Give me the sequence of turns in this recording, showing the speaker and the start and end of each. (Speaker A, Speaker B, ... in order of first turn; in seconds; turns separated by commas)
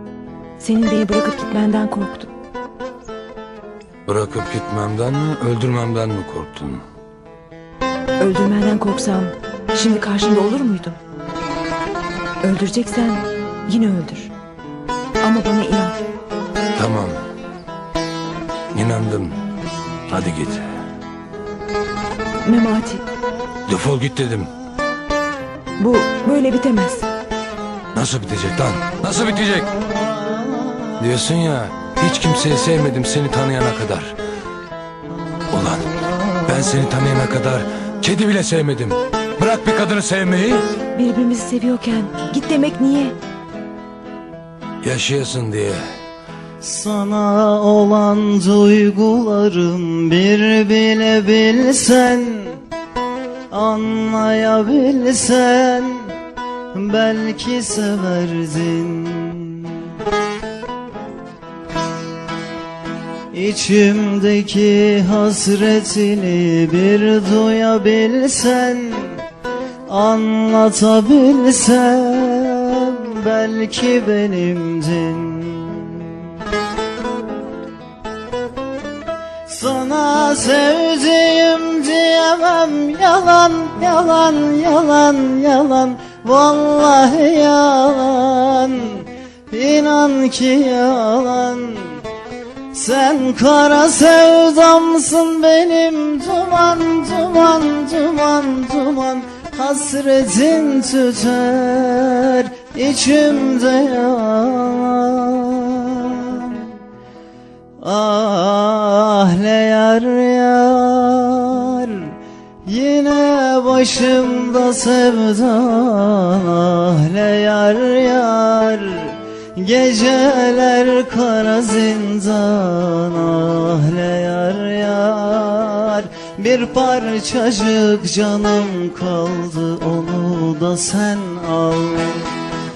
Speaker A: 0.6-2.3, Speaker B: 4.0-6.8, Speaker A: 8.2-11.0, Speaker A: 12.4-14.3, Speaker A: 15.2-16.0, Speaker B: 16.8-17.2, Speaker B: 18.7-19.4, Speaker B: 20.1-20.6, Speaker A: 22.4-23.0, Speaker B: 23.7-24.5, Speaker A: 25.8-27.1, Speaker B: 27.9-29.7, Speaker B: 31.0-34.1, Speaker B: 35.5-35.9, Speaker B: 36.4-40.6, Speaker A: 40.9-43.1, Speaker B: 44.8-45.8, Speaker C: 46.6-52.6, Speaker C: 53.5-56.1, Speaker C: 56.7-60.0, Speaker C: 63.3-69.2, Speaker C: 69.9-76.3, Speaker C: 79.5-92.0, Speaker C: 92.7-106.7, Speaker C: 107.8-132.3